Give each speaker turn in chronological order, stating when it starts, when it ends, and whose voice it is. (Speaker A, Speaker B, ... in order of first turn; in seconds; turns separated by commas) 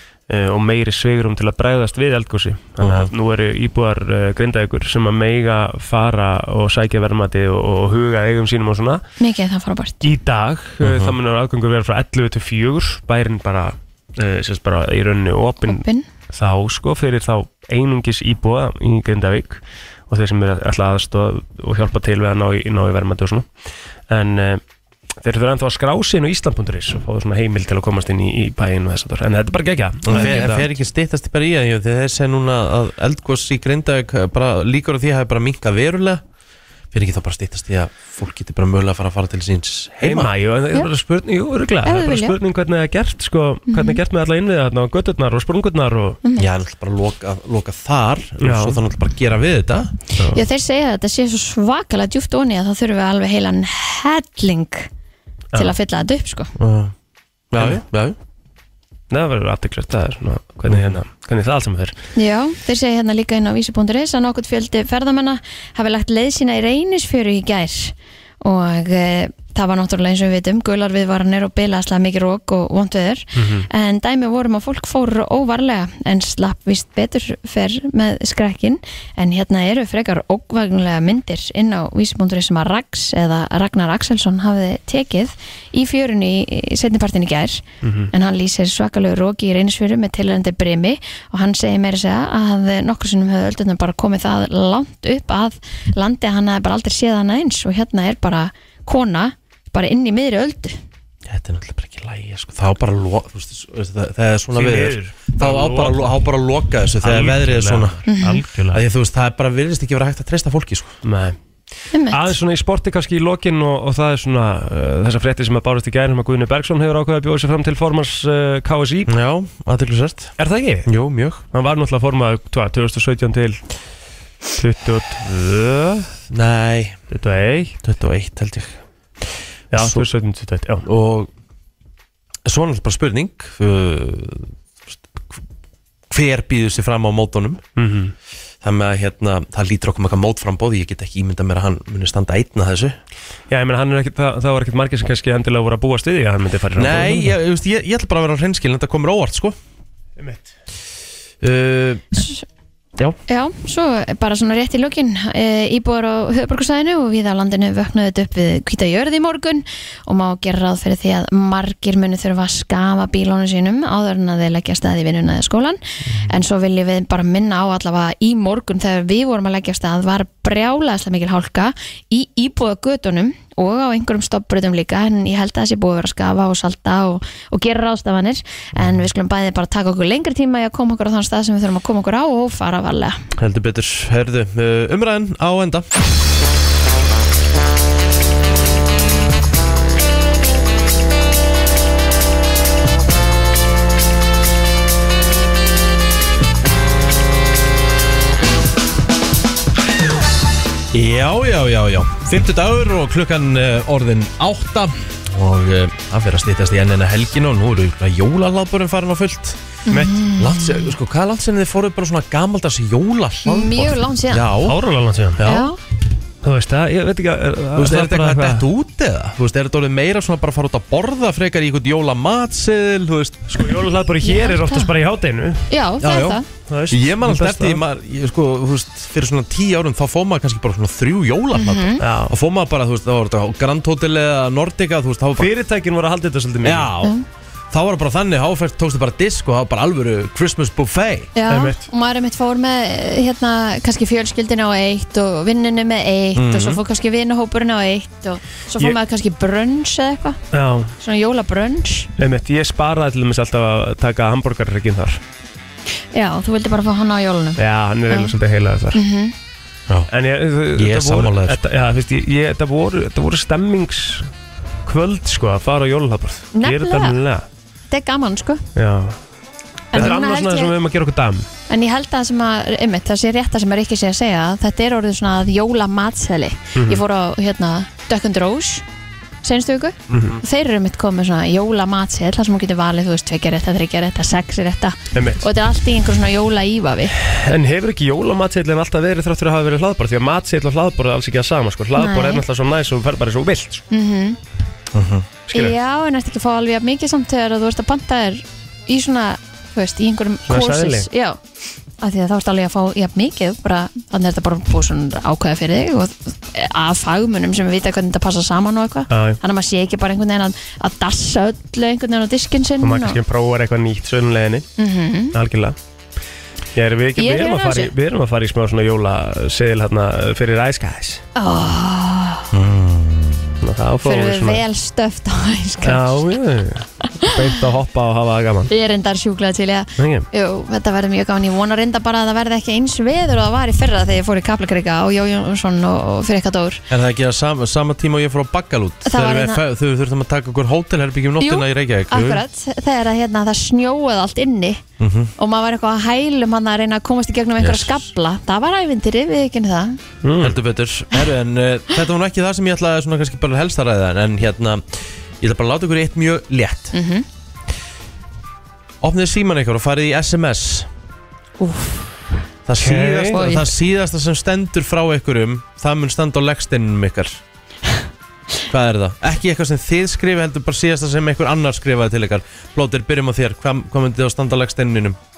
Speaker A: 0.3-9.0, Speaker B: 2.8-3.1, Speaker C: 9.2-10.0, Speaker A: 10.0-23.4, Speaker B: 10.8-11.2, Speaker C: 15.6-16.1, Speaker A: 24.1-24.6, Speaker A: 25.2-30.7, Speaker B: 30.1-36.2, Speaker B: 36.9-40.3, Speaker A: 40.0-46.2, Speaker C: 41.8-42.4, Speaker C: 43.7-44.0, Speaker B: 46.4-49.9, Speaker A: 48.4-48.8, Speaker A: 50.1-50.4, Speaker C: 50.3-54.9, Speaker C: 55.5-56.5, Speaker B: 56.6-56.9, Speaker B: 57.5-58.2, Speaker A: 57.6-57.8, Speaker A: 59.1-61.9, Speaker B: 60.7-61.0, Speaker C: 62.1-100.8, Speaker A: 73.4-73.7, Speaker A: 87.8-88.1, Speaker B: 101.3-108.0, Speaker A: 104.5-106.2, Speaker A: 107.0-108.8, Speaker C: 108.1-108.4, Speaker B: 108.7-111.0, Speaker A: 111.0-111.4, Speaker C: 111.9-112.3, Speaker A: 112.1-119.1, Speaker B: 119.1-120.3, Speaker A: 120.4-120.9, Speaker B: 120.8-121.4, Speaker A: 121.5-123.6, Speaker A: 124.5-126.1, Speaker B: 126.3-127.0, Speaker A: 127.1-127.8, Speaker B: 127.8-128.8, Speaker A: 129.7-130.9, Speaker B: 129.7-130.1, Speaker B: 130.8-131.3, Speaker B: 132.4-135.4, Speaker B: 136.1-137.6, Speaker A: 137.8-138.1, Speaker B: 138.6-143.0, Speaker A: 143.5-147.4, Speaker B: 146.8-149.6, Speaker A: 150.2-150.5, Speaker B: 151.4-152.2, Speaker C: 153.3-183.2, Speaker B: 183.4-185.9, Speaker B: 200.9-209.6, Speaker C: 209.9-210.9, Speaker A: 209.9-210.2, Speaker B: 210.3-214.8, Speaker C: 213.4-214.5, Speaker A: 214.6-215.4, Speaker B: 215.4-215.7, Speaker C: 215.4-215.8, Speaker A: 216.4-218.6, Speaker B: 217.8-223.5, Speaker A: 223.5-225.7, Speaker C: 224.2-224.9, Speaker C: 225.7-226.4, Speaker B: 226.0-235.5, Speaker A: 226.7-227.8, Speaker C: 231.5-232.0, Speaker A: 232.0-232.3, Speaker A: 235.4-236.9, Speaker B: 236.6-237.2, Speaker B: 237.7-241.3, Speaker C: 241.4-250.4, Speaker A: 241.5-241.8, Speaker B: 246.3-246.8, Speaker A: 250.5-250.9, Speaker C: 251.0-252.1, Speaker A: 252.2-255.2, Speaker C: 256.1-258.3, Speaker A: 257.6-259.0, Speaker C: 258.9-259.4, Speaker A: 260.1-264.3, Speaker B: 260.7-261.6, Speaker A: 264.9-267.4, Speaker C: 266.5-267.2, Speaker C: 267.9-268.7, Speaker A: 268.8-269.2, Speaker C: 269.9-270.7, Speaker A: 269.9-271.5, Speaker C: 271.7-278.9, Speaker A: 276.7-277.0, Speaker C: 279.4-287.1, Speaker B: 280.1-280.4, Speaker A: 280.1-280.4, Speaker A: 285.1-285.4, Speaker A: 287.2-293.8, Speaker C: 291.9-292.4, Speaker C: 293.9-294.4, Speaker B: 294.9-295.3, Speaker A: 295.5-295.7, Speaker C: 295.5-301.4, Speaker A: 300.5-301.1, Speaker C: 302.0-313.2, Speaker A: 309.1-309.4, Speaker A: 312.8-314.7, Speaker C: 314.8-315.4, Speaker A: 315.3-315.8, Speaker A: 316.7-321.2, Speaker C: 317.2-317.9, Speaker C: 321.4-322.5, Speaker B: 322.5-323.6, Speaker A: 323.6-324.6, Speaker C: 324.0-326.2, Speaker A: 325.8-328.7, Speaker C: 328.7-336.8, Speaker A: 330.0-330.3, Speaker B: 336.9-342.4, Speaker C: 339.1-339.6, Speaker C: 341.4-344.8, Speaker B: 345.0-345.3, Speaker C: 345.4-350.0, Speaker B: 347.6-348.0, Speaker A: 350.2-350.6, Speaker B: 350.4-356.9, Speaker C: 356.9-357.2, Speaker B: 359.0-360.9, Speaker C: 361.6-362.1, Speaker B: 362.6-367.4, Speaker A: 362.8-363.4, Speaker C: 363.3-363.7, Speaker B: 368.7-375.2